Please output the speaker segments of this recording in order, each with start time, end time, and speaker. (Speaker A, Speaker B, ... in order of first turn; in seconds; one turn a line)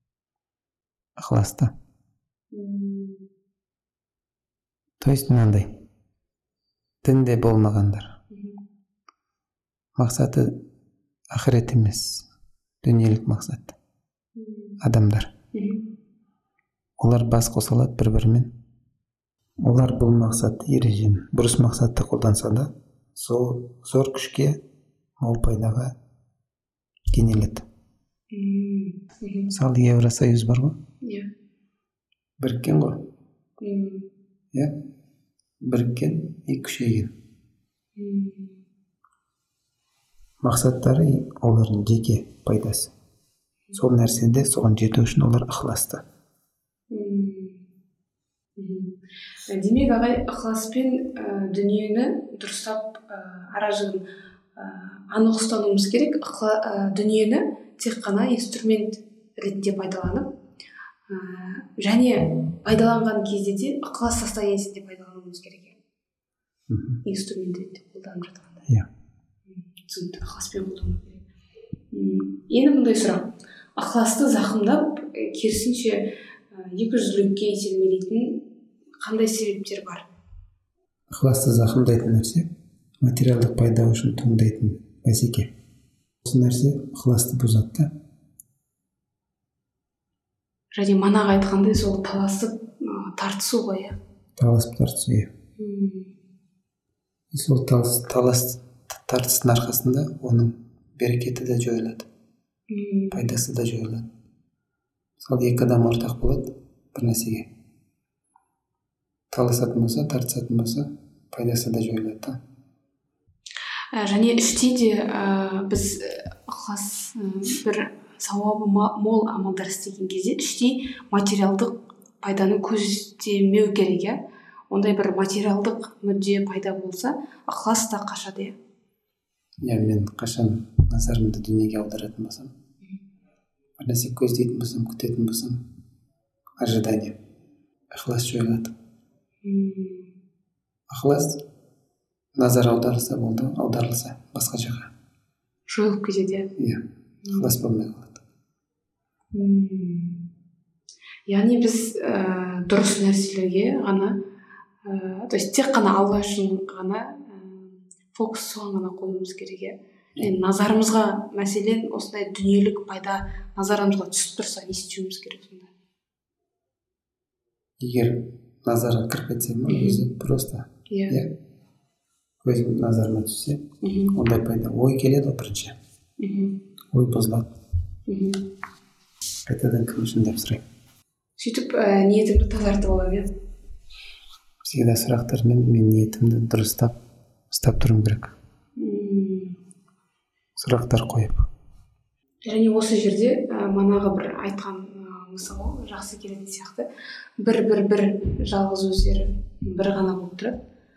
Speaker A: 1.2-1.7
Speaker B: 2.5-3.3
Speaker A: 5.0-5.8
Speaker A: 7.0-8.2
Speaker B: 8.3-8.6
Speaker A: 9.9-10.6
Speaker A: 11.3-12.3
Speaker A: 12.8-13.8
Speaker B: 14.3-14.8
Speaker A: 14.8-15.3
Speaker B: 15.5-15.8
Speaker A: 17.0-18.5
Speaker A: 19.6-24.6
Speaker A: 25.2-25.9
Speaker A: 27.1-27.6
Speaker B: 28.3-29.5
Speaker A: 29.5-30.8
Speaker B: 31.0-31.3
Speaker A: 32.4-33.1
Speaker B: 33.6-34.1
Speaker A: 35.6-37.1
Speaker B: 38.0-38.6
Speaker A: 40.4-42.9
Speaker A: 43.7-46.0
Speaker B: 46.9-47.6
Speaker B: 48.6-48.9
Speaker B: 49.5-54.0
Speaker B: 54.5-60.3
Speaker B: 61.1-65.8
Speaker A: 66.7-67.0
Speaker B: 67.0-68.7
Speaker B: 69.6-71.2
Speaker B: 71.9-78.5
Speaker B: 79.0-80.1
Speaker A: 81.1-82.5
Speaker A: 83.0-85.5
Speaker A: 86.2-87.9
Speaker B: 90.7-94.0
Speaker A: 94.3-95.3
Speaker B: 95.6-96.1
Speaker A: 97.3-102.1
Speaker B: 102.7-103.2
Speaker A: 103.1-104.1
Speaker A: 105.2-107.5
Speaker A: 109.3-112.4
Speaker B: 113.9-124.2
Speaker B: 124.7-128.5
Speaker A: 129.6-132.5
Speaker A: 133.8-135.6
Speaker A: 136.6-137.2
Speaker A: 137.9-138.7
Speaker B: 139.4-140.1
Speaker A: 140.9-141.4
Speaker A: 142.3-144.9
Speaker B: 145.7-146.5
Speaker A: 146.6-148.2
Speaker B: 147.2-147.5
Speaker B: 149.3-150.2
Speaker B: 151.3-154.2
Speaker B: 154.8-165.7
Speaker A: 167.8-171.3
Speaker B: 169.7-170.1
Speaker B: 170.9-171.2
Speaker A: 172.4-175.8
Speaker B: 173.8-174.2
Speaker B: 176.2-176.6
Speaker A: 176.9-177.5
Speaker B: 178.1-178.4
Speaker A: 179.4-180.6
Speaker B: 181.4-183.3
Speaker A: 184.6-186.9
Speaker A: 187.5-188.3
Speaker B: 188.8-189.6
Speaker A: 190.6-191.4
Speaker B: 192.4-196.9
Speaker B: 197.4-200.6